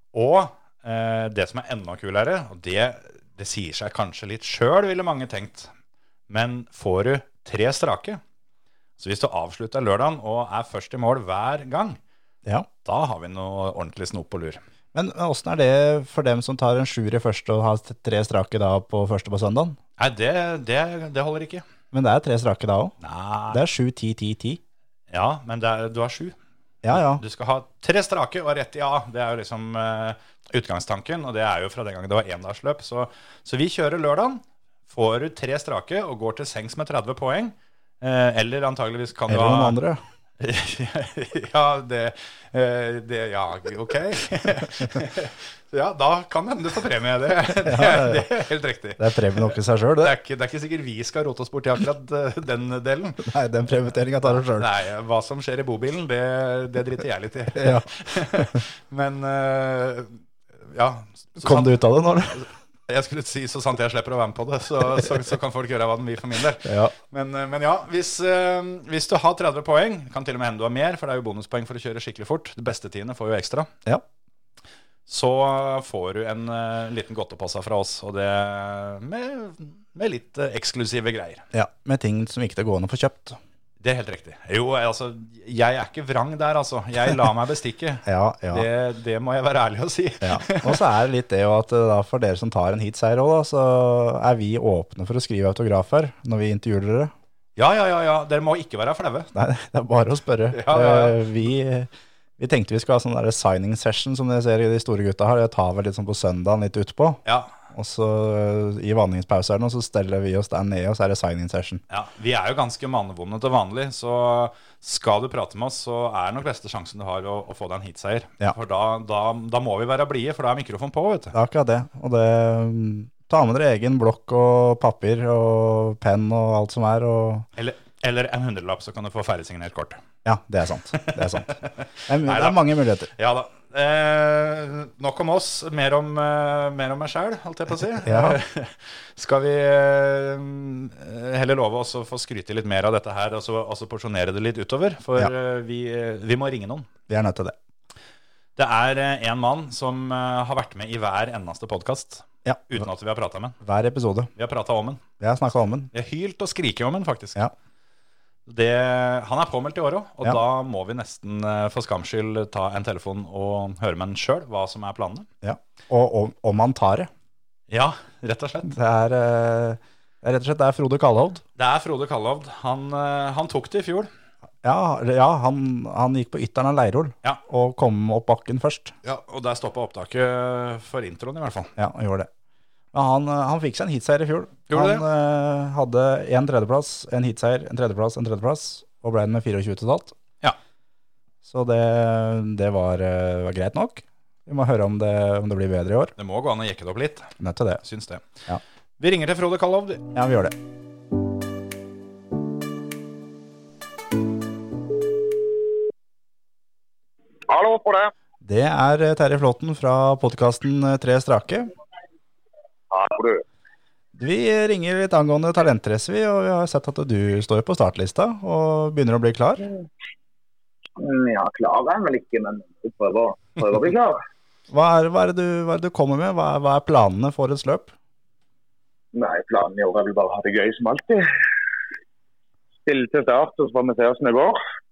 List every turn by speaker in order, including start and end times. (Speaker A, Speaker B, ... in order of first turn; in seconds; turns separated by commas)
Speaker A: 0.1-5.7, Speaker A: 6.3-8.2, Speaker A: 9.0-12.0, Speaker A: 12.8-14.6, Speaker B: 14.9-19.8, Speaker A: 20.0-21.6, Speaker B: 21.9-22.9, Speaker A: 23.0-23.6, Speaker B: 23.5-24.6, Speaker A: 25.1-26.4, Speaker B: 26.8-27.2, Speaker A: 26.9-39.8, Speaker B: 39.3-40.0, Speaker A: 40.4-53.3, Speaker B: 47.6-48.3, Speaker B: 49.0-50.1, Speaker B: 53.2-54.7, Speaker A: 54.2-61.8, Speaker B: 57.5-58.6, Speaker B: 61.4-62.5, Speaker A: 62.3-73.7, Speaker B: 66.6-66.9, Speaker A: 75.1-81.4, Speaker B: 81.5-83.4, Speaker A: 83.8-90.8, Speaker B: 88.0-88.7, Speaker B: 90.2-97.1, Speaker A: 97.5-99.3, Speaker B: 99.3-107.2, Speaker A: 100.5-101.2, Speaker A: 107.2-107.5, Speaker B: 107.7-111.8, Speaker A: 111.9-121.3, Speaker B: 121.3-127.5, Speaker A: 127.6-130.0, Speaker B: 130.2-131.6, Speaker A: 130.9-131.7, Speaker B: 132.1-133.1, Speaker A: 132.2-132.6, Speaker A: 133.1-146.9, Speaker B: 138.0-138.4, Speaker B: 147.1-147.6, Speaker A: 148.6-153.6, Speaker B: 152.4-152.9, Speaker B: 153.6-154.3, Speaker A: 154.3-155.0, Speaker B: 155.2-155.9, Speaker A: 155.9-157.4, Speaker A: 158.5-165.3, Speaker B: 165.4-167.1, Speaker A: 167.7-168.7, Speaker B: 168.7-171.4, Speaker A: 171.6-174.1, Speaker B: 174.6-178.9, Speaker A: 179.0-181.7, Speaker B: 181.8-182.3, Speaker B: 182.9-190.1, Speaker A: 184.7-185.0, Speaker B: 191.4-196.1, Speaker A: 196.2-197.3, Speaker B: 197.4-197.8, Speaker A: 197.8-198.2, Speaker A: 199.0-200.1, Speaker B: 200.1-200.5, Speaker C: 207.5-208.1, Speaker B: 208.4-211.7, Speaker C: 212.9-213.4, Speaker B: 214.2-219.7, Speaker C: 221.0-224.2, Speaker B: 224.7-227.9, Speaker C: 229.1-231.2, Speaker C: 232.8-234.6